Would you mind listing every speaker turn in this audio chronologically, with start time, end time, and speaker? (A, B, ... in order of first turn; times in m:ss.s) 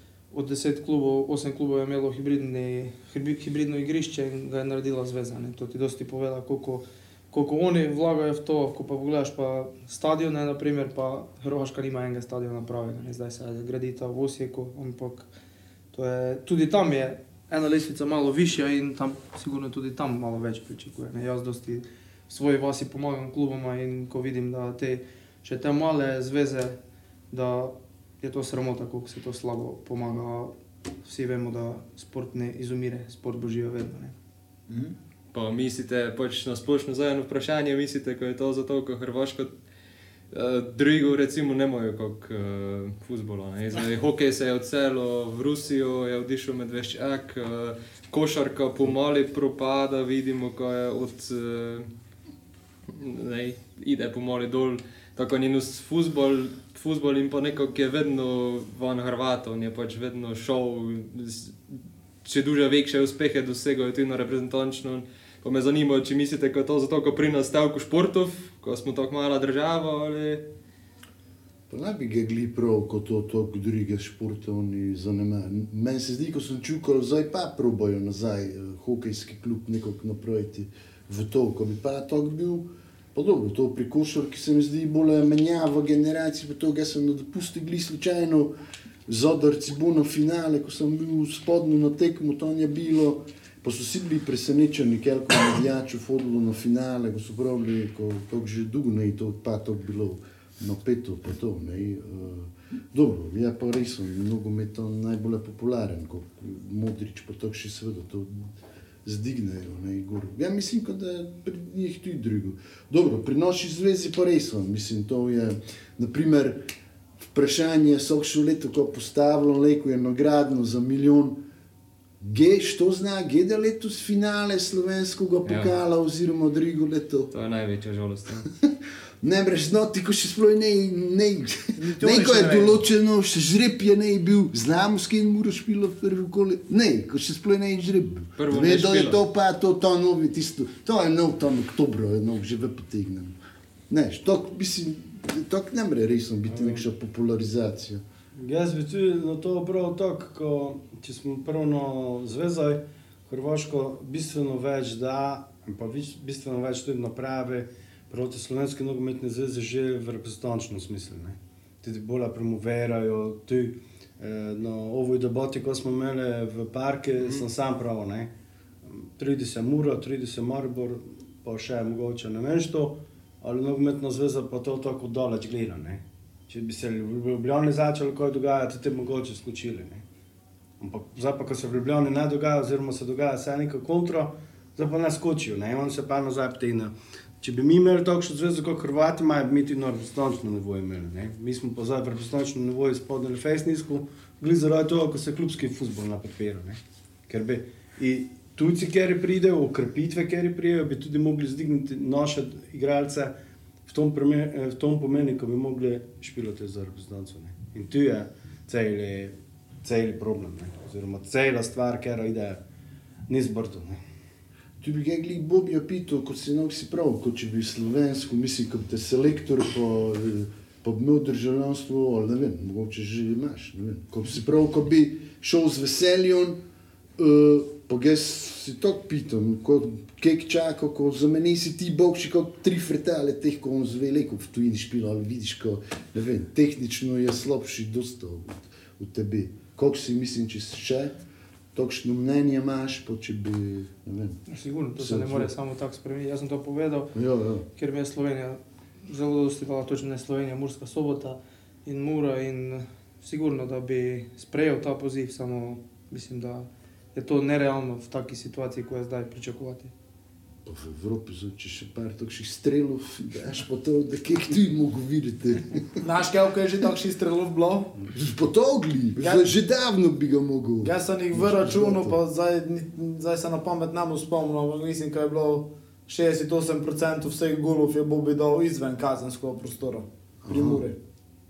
0:00.3-0:15.2 A
0:15.9-0:26.8 A
0:27.3-0:30.5 A
0:31.0-0:34.1 A
0:34.7-0:34.9 B
0:35.3-0:39.5 C
0:40.3-0:51.9 C
0:52.9-1:10.4 C
1:11.7-1:28.5 D
1:29.1-1:48.5 D
1:49.0-1:56.7 D
1:57.2-2:01.4 D
2:02.2-2:07.3 D
2:05.4-2:05.7 C
2:07.3-2:08.5 C
2:09.2-2:23.4 D
2:11.8-2:12.8 B
2:18.4-2:19.2 C
2:23.9-2:28.0 D
2:26.5-2:26.8 E
2:28.4-2:48.3 E
2:47.2-2:47.4 C
2:48.9-3:00.0 E
3:00.8-3:23.3 E
3:23.9-3:32.6 E
3:33.3-3:34.0 E
3:34.8-3:46.6 D
3:47.2-4:01.1 D
4:01.7-4:04.4 D
4:04.5-4:07.1 A
4:05.0-4:05.5 D
4:07.1-4:07.6 D
4:07.8-4:19.9 A
4:20.6-4:26.0 D
4:26.0-4:27.9 B
4:28.1-4:32.2 D
4:29.2-4:29.5 B
4:30.8-4:41.0 B
4:40.4-4:40.9 D